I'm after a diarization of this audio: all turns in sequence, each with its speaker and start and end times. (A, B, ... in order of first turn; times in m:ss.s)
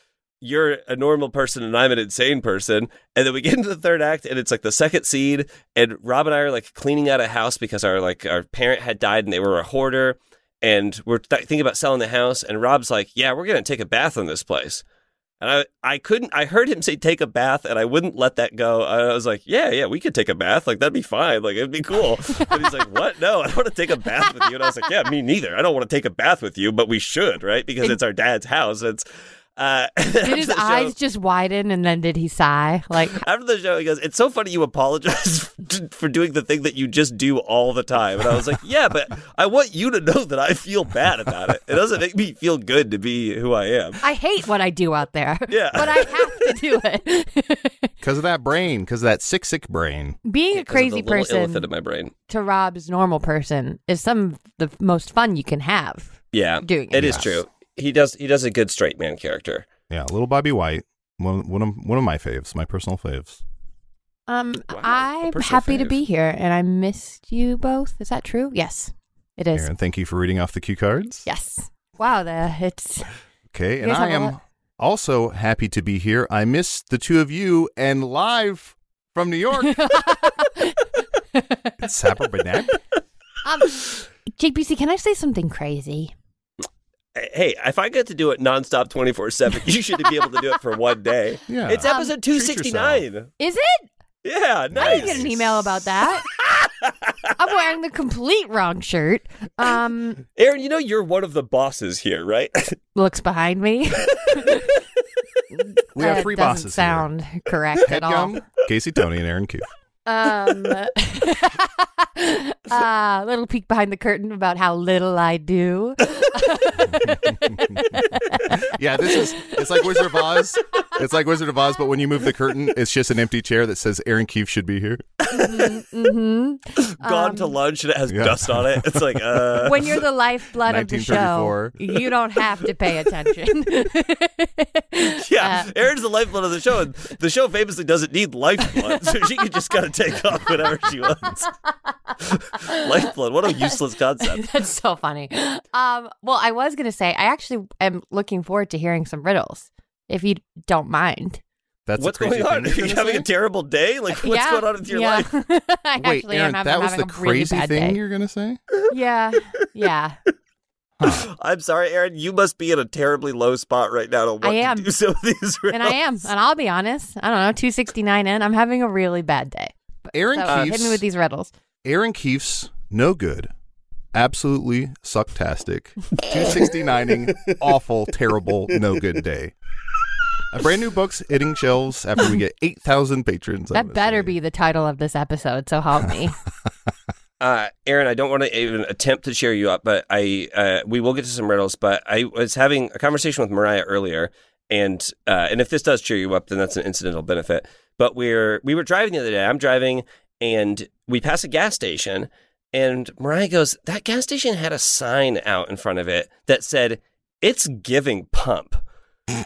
0:00.4-0:14.8 A
0:15.4-0:29.0 A
0:29.6-0:30.9 A
0:30.2-0:33.2 B
0:33.2-0:44.0 A
0:44.0-0:47.9 B
0:45.5-0:46.1 A
0:48.0-0:50.2 C
0:50.2-0:51.7 B
0:50.5-0:52.1 A
0:52.3-0:57.2 B
0:56.3-0:59.7 A
0:56.9-0:57.4 C
0:59.9-1:03.4 C
1:04.3-1:09.7 B
1:04.7-1:06.0 A
1:09.6-1:11.3 C
1:11.3-1:13.1 B
1:13.5-1:20.1 C
1:13.8-1:14.3 B
1:19.6-1:20.8 B
1:21.3-1:21.8 B
1:21.8-1:22.7 C
1:23.4-1:26.1 B
1:27.2-1:33.3 A
1:31.5-1:33.0 C
1:31.8-1:32.2 B
1:33.4-1:33.9 B
1:34.2-1:35.3 A
1:34.7-1:35.8 C
1:34.8-1:36.2 B
1:36.2-1:37.3 A
1:37.4-1:40.2 B
1:40.4-1:42.8 A
1:43.0-1:44.7 B
1:45.5-1:48.4 B
1:45.9-1:47.1 C
1:47.8-1:49.7 C
1:50.1-2:00.8 B
1:56.9-2:05.0 C
2:05.2-2:05.8 A
2:05.3-2:07.6 B
2:06.8-2:09.9 A
2:08.1-2:09.8 C
2:09.6-2:15.7 B
2:10.6-2:11.8 C
2:15.2-2:21.5 A
2:18.7-2:19.1 B
2:22.2-2:24.5 A
2:22.6-2:22.9 B
2:23.6-2:31.4 B
2:31.9-2:33.3 C
2:32.0-2:35.3 A
2:34.2-2:38.0 B
2:36.0-2:38.6 C
2:38.9-2:40.2 B
2:41.0-2:41.3 C
2:41.0-2:46.3 A
2:44.4-2:44.9 B
2:45.7-2:51.5 B
2:50.1-2:51.0 C
2:50.5-2:50.7 A
2:51.8-2:53.5 C
2:54.1-2:59.5 C
3:00.5-3:04.4 C
3:03.7-3:06.4 B
3:07.4-3:28.8 A